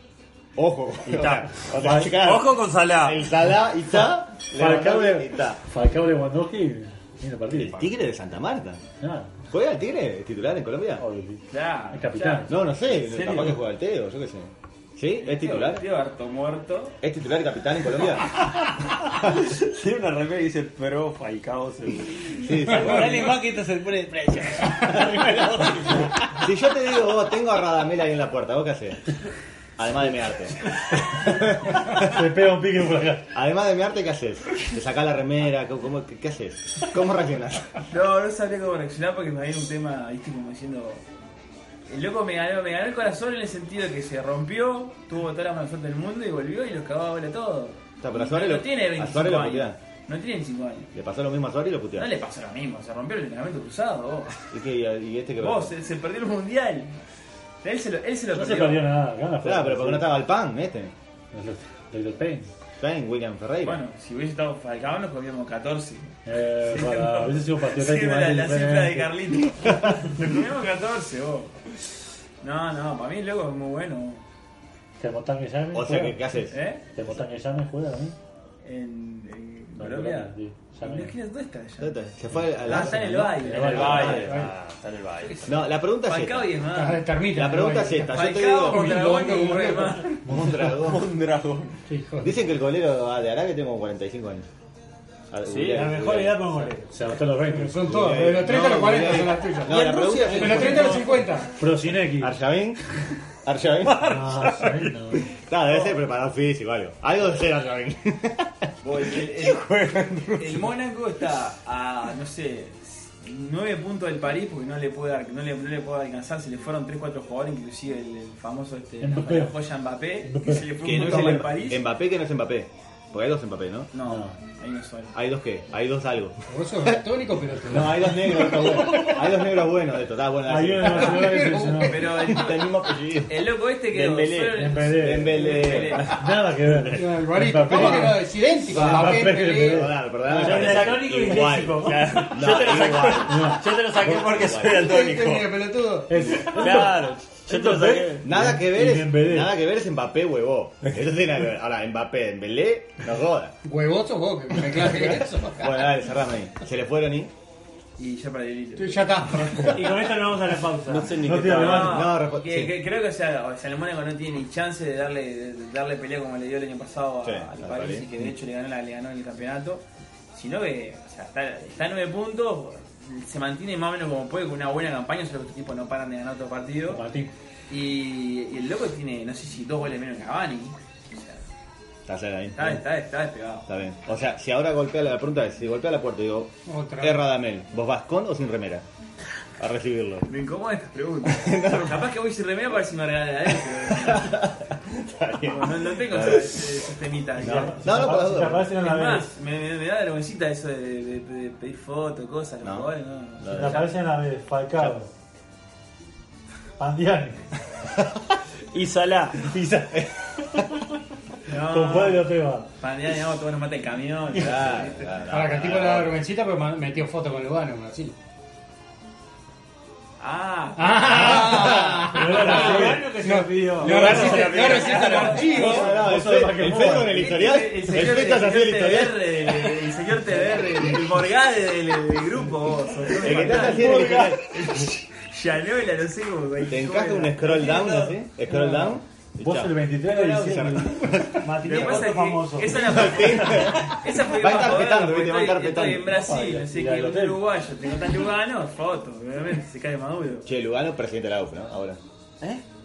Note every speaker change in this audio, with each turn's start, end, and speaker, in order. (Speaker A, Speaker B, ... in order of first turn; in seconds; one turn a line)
Speaker A: 0.6-5.6
Speaker B: 1.1-3.2
Speaker C: 1.8-2.1
Speaker C: 4.5-7.9
Speaker A: 7.5-8.8
Speaker C: 9.0-9.3
Speaker A: 9.5-11.0
Speaker C: 11.0-12.6
Speaker D: 11.5-13.5
Speaker A: 12.5-15.8
Speaker D: 15.2-17.0
Speaker A: 17.0-18.3
Speaker B: 18.3-23.2
Speaker A: 22.4-23.3
Speaker E: 22.7-26.2
Speaker B: 24.9-26.0
Speaker A: 26.4-29.0
Speaker A: 29.8-30.6
Speaker C: 31.1-33.3
Speaker A: 31.2-32.1
Speaker A: 33.3-37.7
Speaker D: 37.9-41.0
Speaker D: 41.9-50.9
Speaker A: 48.0-49.8
Speaker A: 50.9-52.1
Speaker D: 51.9-54.4
Speaker A: 54.5-55.7
Speaker D: 55.4-56.9
Speaker D: 57.6-58.9
Speaker C: 58.3-60.1
Speaker A: 59.4-60.9
Speaker C: 61.3-62.5
Speaker A: 62.8-63.8
Speaker D: 63.6-66.1
Speaker C: 66.2-69.1
Speaker D: 66.6-71.6
Speaker A: 69.6-69.9
Speaker D: 72.4-74.2
Speaker C: 75.0-76.2
Speaker A: 75.7-76.6
Speaker D: 76.5-76.8
Speaker C: 76.9-78.2
Speaker D: 78.6-84.4
Speaker C: 79.8-81.1
Speaker A: 81.8-84.4
Speaker C: 82.6-84.5
Speaker B: 83.5-85.5
Speaker A: 85.5-86.5
Speaker D: 86.0-87.2
Speaker F: 86.7-90.0
Speaker A: 87.3-89.0
Speaker D: 88.0-90.3
Speaker A: 90.2-91.0
Speaker C: 90.2-90.7
Speaker B: 90.7-91.7
Speaker F: 91.9-92.3
Speaker A: 92.2-94.5
Speaker A: 95.3-96.7
Speaker B: 95.4-96.0
Speaker E: 95.7-97.1
Speaker C: 96.9-98.5
Speaker F: 97.4-99.8
Speaker A: 98.0-100.9
Speaker B: 99.7-101.2
Speaker F: 100.3-101.5
Speaker C: 101.5-102.3
Speaker A: 102.2-102.8
Speaker A: 103.4-104.2
Speaker B: 103.8-105.0
Speaker C: 104.0-105.3
Speaker A: 105.4-108.7
Speaker D: 108.8-109.7
Speaker B: 109.7-110.4
Speaker D: 110.3-121.8
Speaker C: 119.0-119.6
Speaker C: 120.2-121.5
Speaker A: 120.8-123.9
Speaker D: 123.9-125.1
Speaker C: 124.0-124.4
Speaker A: 125.1-127.0
Speaker F: 126.5-128.6
Speaker A: 127.7-131.4
Speaker C: 130.5-132.2
Speaker F: 130.8-132.0
Speaker D: 131.8-136.3
Speaker A: 132.0-133.4
Speaker B: 133.9-134.7
Speaker C: 134.5-140.8
Speaker A: 134.9-136.0
Speaker F: 136.9-139.9
Speaker A: 139.6-143.6
Speaker B: 140.3-145.6
Speaker E: 140.3-142.3
Speaker C: 143.2-144.4
Speaker A: 144.2-144.8
Speaker F: 144.6-146.4
Speaker C: 146.1-149.5
Speaker B: 146.3-148.3
Speaker A: 148.2-153.5
Speaker F: 153.6-155.9
Speaker A: 154.7-157.3
Speaker D: 158.0-159.5
Speaker F: 158.8-159.7
Speaker C: 159.6-162.1
Speaker E: 159.7-161.3
Speaker B: 160.9-162.0
Speaker D: 161.5-177.0
Speaker A: 161.6-162.8
Speaker A: 167.2-168.2
Speaker C: 176.8-177.3
Speaker D: 177.7-181.4
Speaker A: 182.1-182.8
Speaker D: 182.6-183.7
Speaker A: 183.7-188.8
Speaker F: 186.7-187.2
Speaker A: 189.6-190.3
Speaker D: 190.2-194.4
Speaker A: 191.2-192.1
Speaker A: 193.6-196.7
Speaker D: 195.4-198.1
Speaker C: 197.4-199.3
Speaker A: 197.4-198.7
Speaker D: 198.7-204.0
Speaker A: 202.6-203.9
Speaker C: 203.5-205.1
Speaker C: 206.8-207.4
Speaker B: 208.7-209.5
Speaker C: 209.4-210.6
Speaker D: 211.5-215.1
Speaker C: 211.5-212.7
Speaker A: 214.3-216.2
Speaker F: 215.3-218.1
Speaker D: 220.2-222.8
Speaker F: 220.8-225.9
Speaker C: 221.2-223.1
Speaker E: 222.3-225.4
Speaker B: 223.8-225.5
Speaker D: 223.9-226.0
Speaker A: 225.5-229.3
Speaker C: 225.6-227.4
Speaker D: 226.7-238.2
Speaker C: 230.6-231.0
Speaker A: 233.2-234.5
Speaker A: 236.6-242.0
Speaker C: 238.5-241.2
Speaker D: 240.1-240.8
Speaker E: 241.4-242.9
Speaker D: 241.6-250.5
Speaker A: 242.7-246.2
Speaker C: 246.1-247.4
Speaker A: 250.4-252.0